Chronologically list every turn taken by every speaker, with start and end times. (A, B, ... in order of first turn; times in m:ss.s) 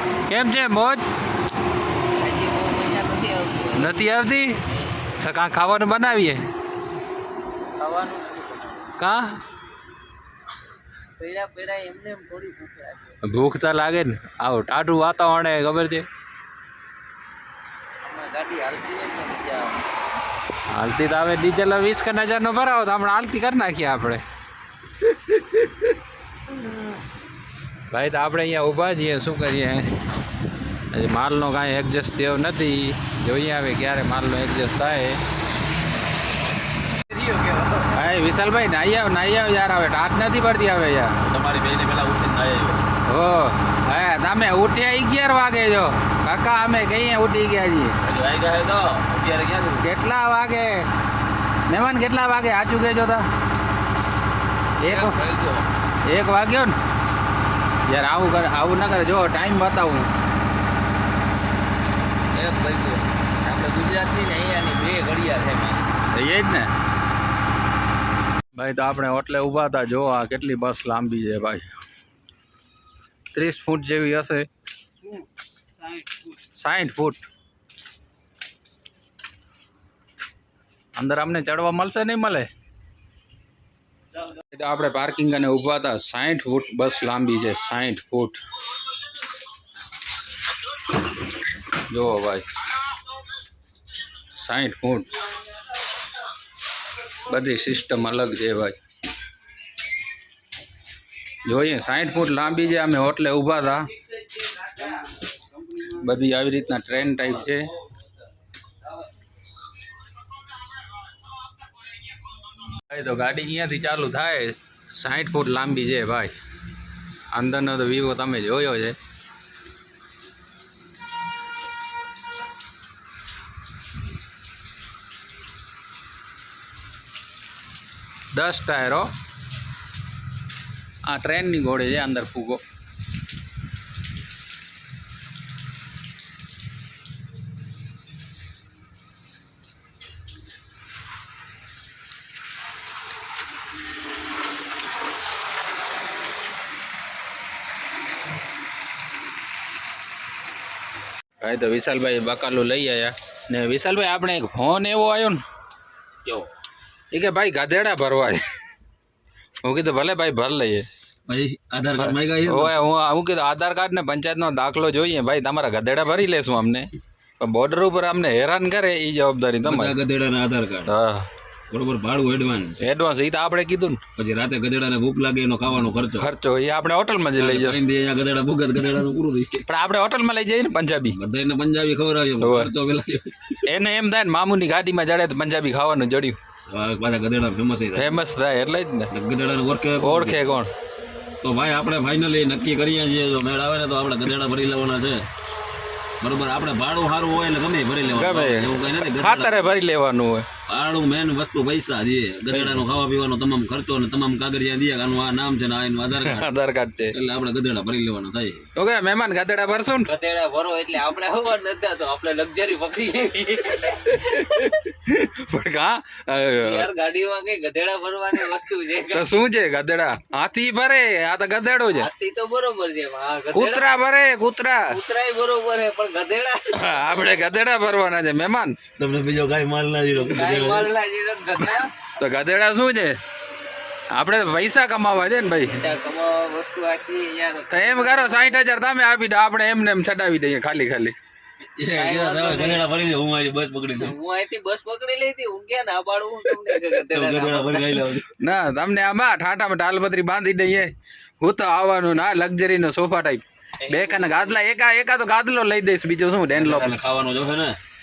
0:00.3-0:01.0 A
0:02.2-0:04.1 B
0:03.8-0:04.6 A
0:05.2-0:06.5 A
0:07.8-0:08.9 B
0:09.0-0:09.4 A
0:11.2-0:13.2 B
0:13.2-0:16.0 A
0:18.0-0:19.8 B
0:20.7-0:24.2 A
0:25.1-0:25.8 A
0:27.9-0:30.0 A
0:30.9-0:35.2 A
0:37.1-0:37.6 B
0:37.9-0:41.2 A
0:41.2-0:42.9 C
0:43.1-0:48.0 A
0:48.0-0:49.9 C
0:49.8-0:50.9 A
0:51.7-0:53.3 A
0:54.8-0:55.2 A
0:54.9-0:55.6 C
0:56.0-0:56.8 A
0:57.9-1:00.1 A
1:02.5-1:03.0 C
1:03.4-1:05.6 B
1:06.1-1:06.7 A
1:08.6-1:11.7 A
1:13.3-1:14.5 A
1:16.6-1:17.2 A
1:21.0-1:22.5 A
1:24.3-1:28.4 A
1:31.9-1:32.4 A
1:34.3-1:35.1 A
1:37.3-1:38.8 A
1:41.4-1:43.9 A
1:45.9-1:47.7 A
1:52.8-1:56.3 A
1:57.3-1:59.0 A
2:08.3-2:09.1 A
2:11.1-2:12.6 A
2:31.4-2:35.4 A
2:36.2-2:36.5 C
2:37.1-2:38.4 A
2:39.6-2:40.8 A
2:41.3-2:42.7 C
2:42.0-2:46.9 A
2:47.4-2:50.0 A
2:49.6-2:50.9 C
2:50.9-2:51.3 A
2:51.7-2:52.8 C
2:52.8-2:54.0 A
2:54.2-2:56.3 C
2:56.2-2:57.8 A
2:57.4-2:59.6 C
2:59.6-3:01.2 A
3:01.1-3:03.6 C
3:02.4-3:02.7 A
3:03.7-3:06.4 A
3:06.6-3:08.2 C
3:08.0-3:09.1 A
3:09.1-3:10.4 C
3:10.0-3:10.7 A
3:11.4-3:15.2 C
3:16.2-3:19.7 C
3:18.1-3:20.5 A
3:20.7-3:26.6 C
3:22.5-3:22.8 A
3:26.2-3:27.1 A
3:27.1-3:28.7 C
3:28.8-3:30.1 A
3:30.0-3:34.2 B
3:34.0-3:36.9 A
3:36.6-3:39.3 B
3:39.1-3:42.1 A
3:41.9-3:44.0 B
3:43.5-3:45.0 A
3:44.9-3:47.3 B
3:46.7-3:48.8 A
3:49.0-3:50.9 C
3:50.3-3:51.9 B
3:52.1-3:53.2 A
3:54.1-3:55.8 A
3:55.7-3:58.6 B
3:57.7-4:01.1 A
4:01.8-4:04.2 C
4:01.9-4:02.8 B
4:04.0-4:08.0 B
4:07.1-4:08.3 C
4:08.4-4:16.9 A
4:13.8-4:14.6 B
4:16.5-4:17.8 C